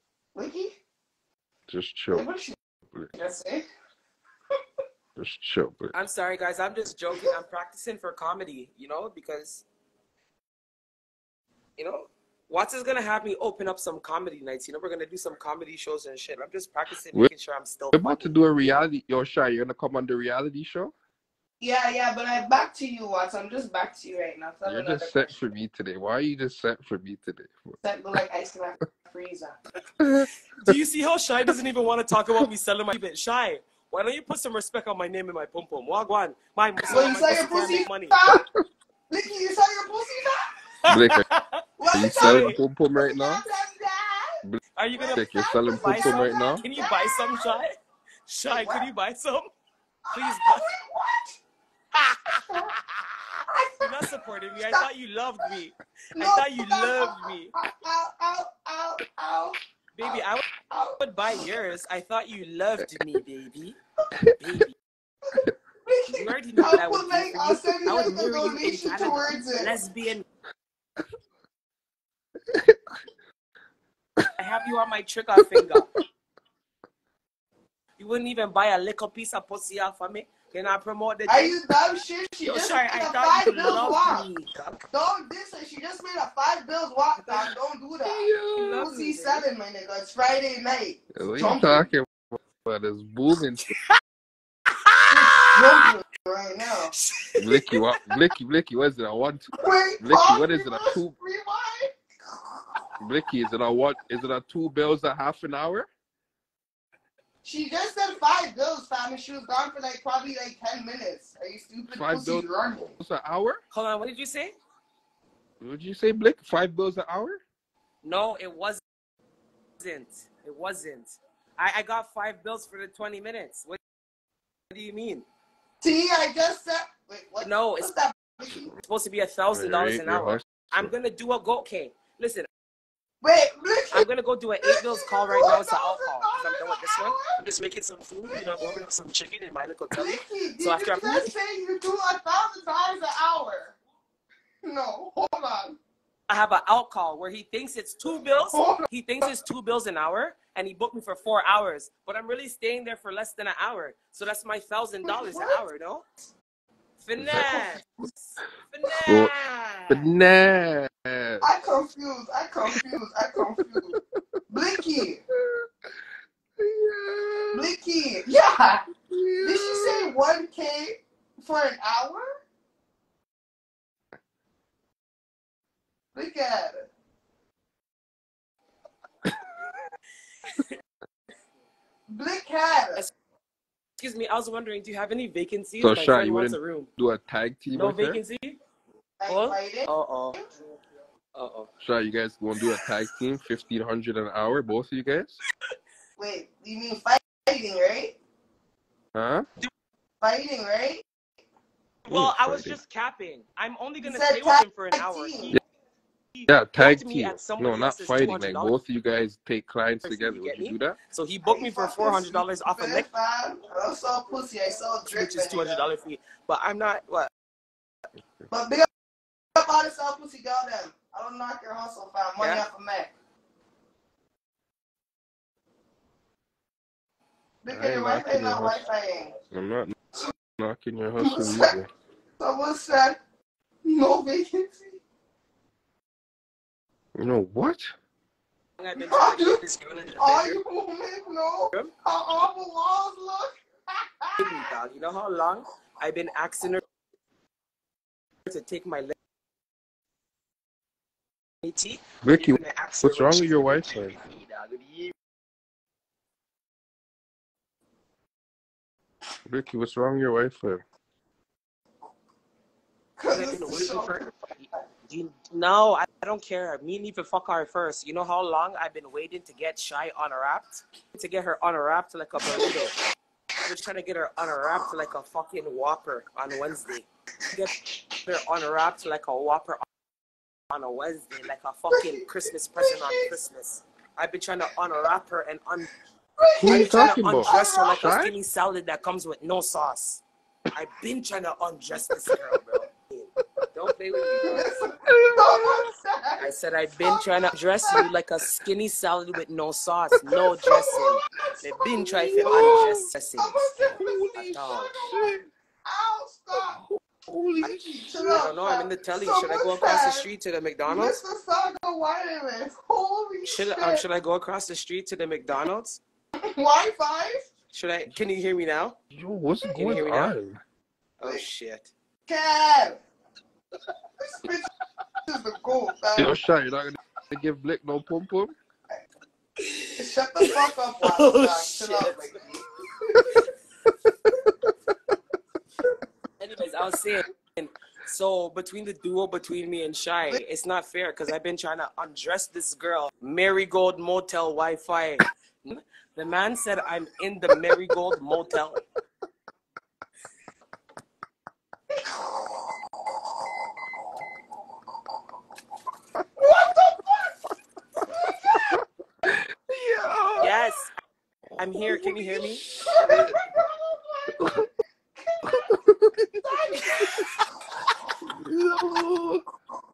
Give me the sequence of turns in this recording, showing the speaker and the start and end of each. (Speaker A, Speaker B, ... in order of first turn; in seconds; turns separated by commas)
Speaker A: 0.3-0.7, Speaker B: 1.7-2.3, Speaker A: 2.1-2.5, Speaker A: 3.1-3.7, Speaker B: 5.2-6.0, Speaker C: 5.9-9.7, Speaker C: 11.8-18.9, Speaker B: 17.9-20.9, Speaker A: 21.6-25.3, Speaker B: 24.6-27.8, Speaker A: 27.8-29.6, Speaker B: 30.0-30.7, Speaker C: 30.6-38.2, Speaker A: 36.9-38.4, Speaker A: 39.1-40.4, Speaker C: 40.9-42.6, Speaker B: 40.9-41.2, Speaker A: 41.8-44.4, Speaker B: 41.9-43.4, Speaker C: 44.8-47.7, Speaker A: 44.9-47.6, Speaker B: 45.1-46.7, Speaker C: 48.3-49.5, Speaker A: 48.5-48.9, Speaker A: 50.1-51.4, Speaker C: 50.1-50.7, Speaker C: 51.9-53.2, Speaker A: 53.5-53.9, Speaker C: 53.8-57.5, Speaker A: 54.5-54.9, Speaker A: 56.1-60.2, Speaker C: 60.0-60.5, Speaker A: 60.7-61.0, Speaker C: 61.0-63.8, Speaker C: 64.3-64.8, Speaker A: 65.9-69.7, Speaker C: 66.1-70.2, Speaker C: 74.4-75.9, Speaker B: 75.4-76.0, Speaker C: 78.0-81.6, Speaker A: 81.3-84.3, Speaker C: 82.4-84.8, Speaker A: 84.9-91.9, Speaker C: 87.2-87.5, Speaker B: 88.1-88.8, Speaker C: 88.5-89.5, Speaker B: 91.1-92.1, Speaker B: 92.6-93.7, Speaker C: 93.6-94.0, Speaker C: 94.7-95.9, Speaker A: 95.1-96.9, Speaker C: 96.9-97.8, Speaker B: 97.4-101.2, Speaker A: 99.5-101.9, Speaker B: 103.0-105.9, Speaker A: 107.4-113.0, Speaker B: 111.9-112.5, Speaker B: 113.0-113.6, Speaker C: 113.7-114.5, Speaker B: 115.6-117.4, Speaker C: 118.0-118.8, Speaker C: 119.8-123.8, Speaker C: 124.7-125.2, Speaker A: 125.8-128.7, Speaker C: 127.4-127.9, Speaker C: 128.8-132.5, Speaker B: 129.5-130.9, Speaker A: 133.2-134.1, Speaker C: 133.9-141.3, Speaker A: 134.6-137.4, Speaker A: 138.3-138.8, Speaker A: 139.9-143.8, Speaker A: 144.6-145.8, Speaker C: 146.3-156.0, Speaker A: 148.4-148.9, Speaker A: 155.0-155.6, Speaker C: 157.0-160.1, Speaker B: 157.2-157.8, Speaker B: 159.1-159.3, Speaker B: 159.9-161.5, Speaker A: 161.4-163.9, Speaker B: 163.7-164.0, Speaker A: 164.5-165.2, Speaker B: 164.8-165.7, Speaker B: 166.6-167.7, Speaker A: 167.5-168.8, Speaker B: 169.1-170.1, Speaker A: 169.4-172.3, Speaker A: 176.1-176.9, Speaker A: 182.1-183.1, Speaker C: 184.0-186.9, Speaker B: 185.8-188.2, Speaker C: 187.7-188.6, Speaker A: 189.2-190.4, Speaker C: 189.3-190.4, Speaker C: 191.3-191.7, Speaker B: 191.8-195.4, Speaker A: 196.2-198.2, Speaker B: 199.2-199.5, Speaker A: 200.2-201.0, Speaker C: 202.1-205.6, Speaker B: 202.1-202.8, Speaker A: 204.0-205.5, Speaker C: 206.3-208.8, Speaker B: 206.5-211.0, Speaker C: 210.0-213.1, Speaker A: 211.4-215.9, Speaker C: 215.1-217.3, Speaker A: 218.5-218.9, Speaker A: 219.6-223.1, Speaker C: 222.4-222.7, Speaker A: 227.6-229.3, Speaker B: 227.7-228.8, Speaker B: 229.5-229.9, Speaker B: 230.6-231.9, Speaker A: 231.2-231.8, Speaker A: 232.4-233.2, Speaker A: 233.8-235.0, Speaker B: 237.2-237.9, Speaker C: 238.8-240.6, Speaker A: 238.9-239.6, Speaker A: 240.2-243.5, Speaker A: 244.1-244.7, Speaker C: 244.4-246.8, Speaker C: 248.5-249.1, Speaker C: 251.6-255.1, Speaker B: 252.2-254.2, Speaker B: 259.5-260.8, Speaker A: 263.2-264.2, Speaker C: 263.3-272.9, Speaker A: 272.4-272.9, Speaker C: 273.7-279.8, Speaker C: 280.7-285.9, Speaker A: 281.9-283.3, Speaker A: 286.4-288.0, Speaker B: 286.6-288.4, Speaker C: 286.7-290.2, Speaker C: 290.7-294.5, Speaker B: 294.2-295.9, Speaker A: 294.4-296.5, Speaker C: 296.4-303.7, Speaker A: 297.8-298.1, Speaker A: 300.6-301.7, Speaker B: 302.1-303.1, Speaker A: 302.4-304.3, Speaker B: 303.9-305.5, Speaker C: 304.4-305.0, Speaker A: 305.8-306.8, Speaker B: 306.5-308.5, Speaker A: 307.6-310.3, Speaker C: 308.4-311.2, Speaker A: 310.9-314.1, Speaker C: 313.4-316.0, Speaker A: 316.4-317.5, Speaker C: 317.7-319.0, Speaker B: 319.1-320.6, Speaker C: 319.7-320.4, Speaker C: 321.2-321.9, Speaker A: 322.3-323.0, Speaker A: 324.2-324.7, Speaker A: 325.3-326.4, Speaker B: 326.2-328.5, Speaker C: 329.6-332.4, Speaker A: 330.0-333.4, Speaker C: 336.4-348.8, Speaker A: 356.4-357.4, Speaker A: 358.1-358.7, Speaker B: 358.6-360.6, Speaker C: 360.4-360.9, Speaker C: 361.6-362.7, Speaker B: 361.9-363.4, Speaker A: 361.9-365.6, Speaker B: 364.4-364.7, Speaker B: 365.5-366.4, Speaker A: 366.4-367.3, Speaker B: 368.3-369.4